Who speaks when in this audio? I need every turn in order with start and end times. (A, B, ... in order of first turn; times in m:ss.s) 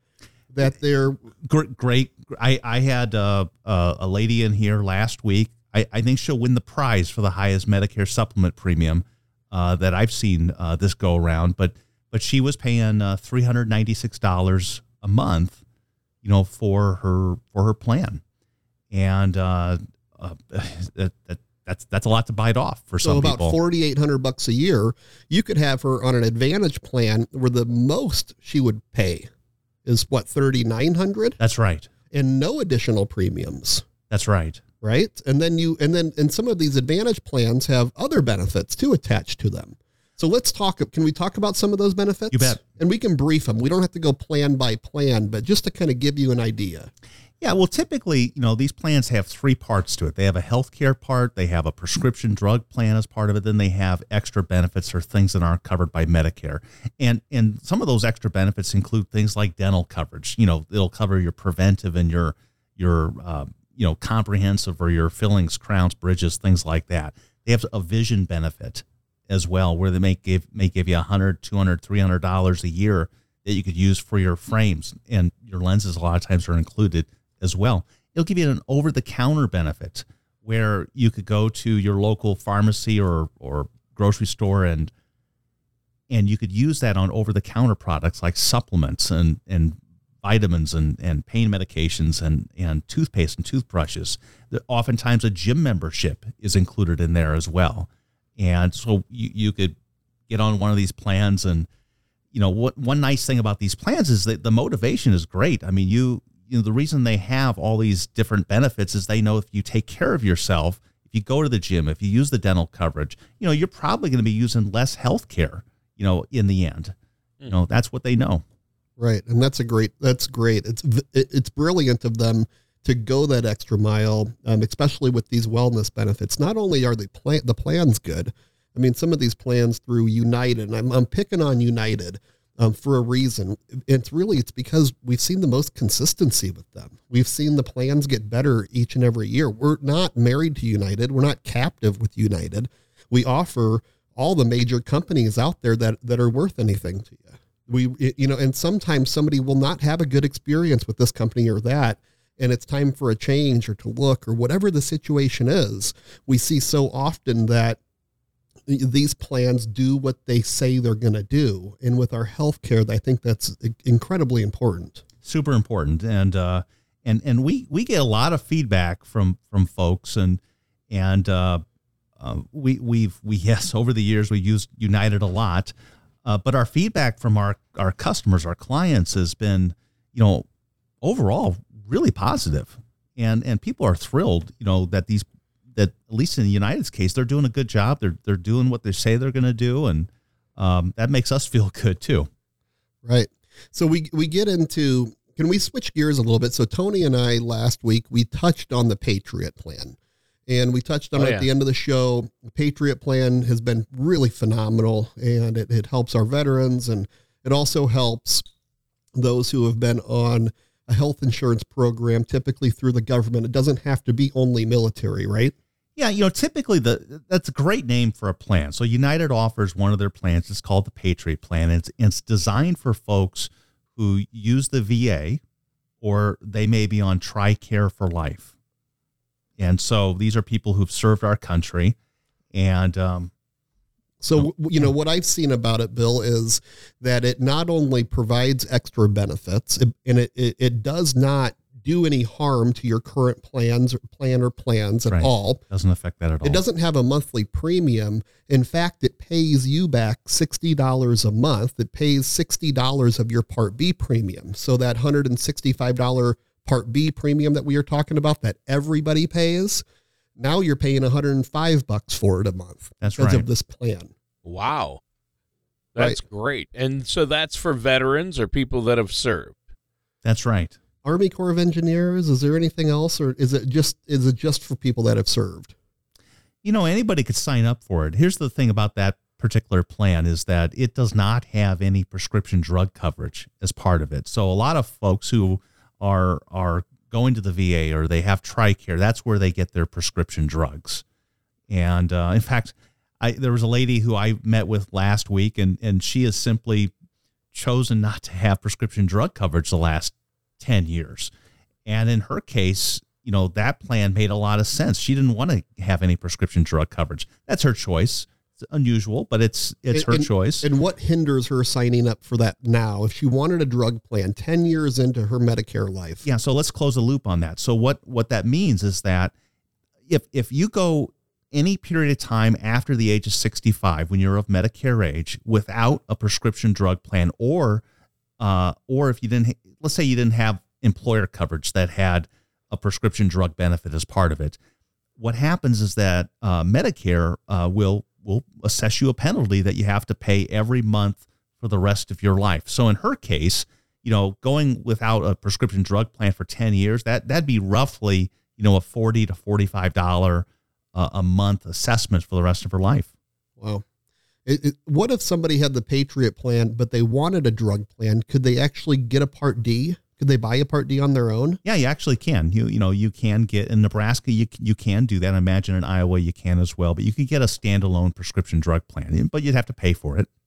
0:00.5-0:01.2 A
0:01.4-0:15.6 B
0:16.2-0:18.2 B
0:18.9-0:23.6 B
0:23.0-0:29.3 A
0:29.8-0:31.4 A
0:31.4-0:31.9 B
0:32.1-0:33.9 A
0:34.1-0:34.6 B
0:34.8-0:46.9 A
0:42.3-0:42.6 B
0:47.4-1:24.9 B
1:26.1-1:39.8 B
1:40.3-1:41.7 B
1:42.3-1:56.9 B
1:57.5-1:58.4 B
1:59.0-2:37.8 A
2:38.7-2:45.0 A
2:45.2-2:51.6 B
2:52.2-2:55.7 B
2:56.2-3:00.4 B
3:01.0-3:12.3 B
3:13.0-3:28.5 A
3:21.2-3:21.5 C
3:29.2-3:35.6 A
3:36.0-3:45.4 B
3:46.0-3:48.5 B
3:49.6-3:52.0 B
3:52.5-3:53.3 B
3:54.2-4:05.6 A
4:05.1-4:06.6 B
4:06.4-4:19.8 A
4:20.4-4:24.1 A
4:23.0-4:23.5 B
4:24.4-4:25.0 C
4:26.0-4:29.6 C
4:30.2-4:30.8 B
4:31.0-4:35.7 A
4:36.6-4:51.0 B
4:51.7-4:56.9 B
4:57.5-5:01.3 B
5:01.9-5:10.7 B
5:09.9-5:16.2 A
5:16.2-5:19.3 B
5:20.1-5:27.8 B
5:28.4-5:34.6 B
5:35.2-5:53.1 B
5:53.6-5:53.8 A
5:54.5-6:01.6 A
6:01.6-6:10.3 B